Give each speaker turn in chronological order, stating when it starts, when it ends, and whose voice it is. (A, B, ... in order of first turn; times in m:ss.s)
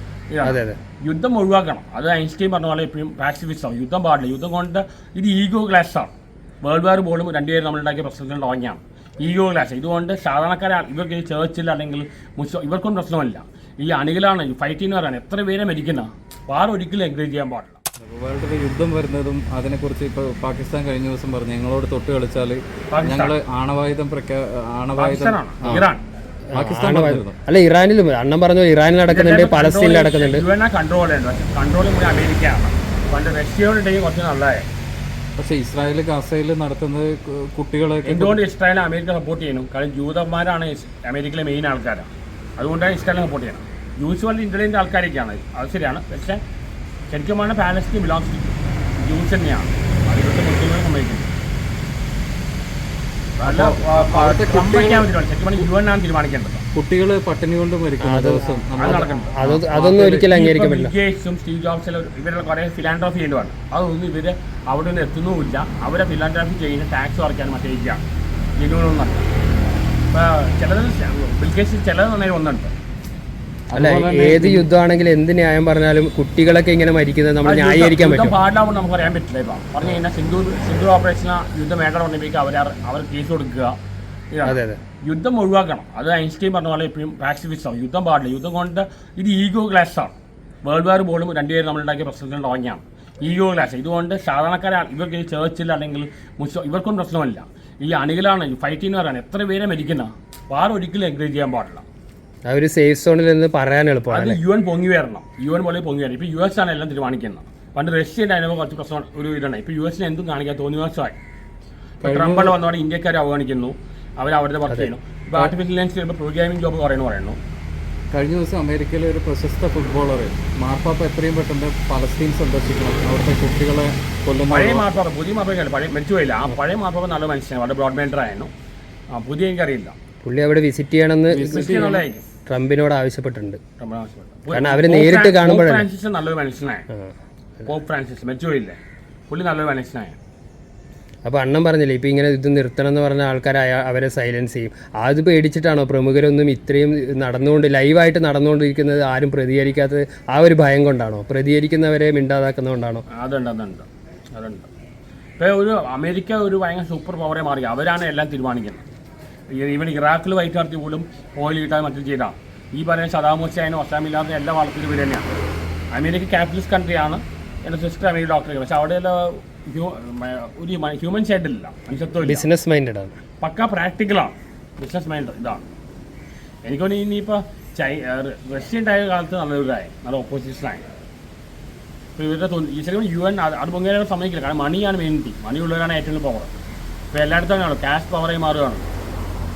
0:00.3-0:06.1 A
0:00.4-0:00.8 B
0:06.6-0:17.8 A
0:18.0-0:25.8 C
0:22.9-0:23.4 A
0:25.0-0:26.0 A
0:26.5-0:30.4 B
0:26.5-0:27.4 C
0:29.1-0:34.7 A
0:35.4-0:38.4 C
0:38.0-0:46.4 A
0:47.1-0:51.4 A
0:53.4-0:56.6 A
0:53.4-0:55.1 C
0:56.7-1:00.3 C
0:58.0-1:00.9 B
0:58.8-0:59.3 A
1:00.3-1:08.0 A
1:08.6-1:09.3 A
1:10.1-1:12.7 A
1:13.7-1:14.7 C
1:13.7-1:18.4 B
1:17.4-1:23.8 A
1:24.3-1:41.9 A
1:24.4-1:24.8 B
1:42.5-1:44.4 B
1:44.1-1:51.2 A
1:52.0-1:52.6 C
1:52.0-1:57.4 A
1:58.1-2:04.9 C
2:04.5-2:08.5 A
2:09.1-2:10.0 A
2:10.2-2:11.7 B
2:11.3-2:12.0 C
2:11.4-2:12.2 A
2:12.5-2:13.6 B
2:13.8-2:16.9 A
2:14.5-2:15.9 B
2:17.6-2:20.2 A
2:21.2-2:33.0 B
2:33.1-2:34.7 A
2:35.4-2:38.9 A
2:39.5-2:45.3 A
2:45.9-2:52.5 A
2:52.2-2:53.2 B
2:53.4-2:55.7 A
2:56.6-3:00.8 A
3:02.2-3:06.6 A
3:07.1-3:08.9 A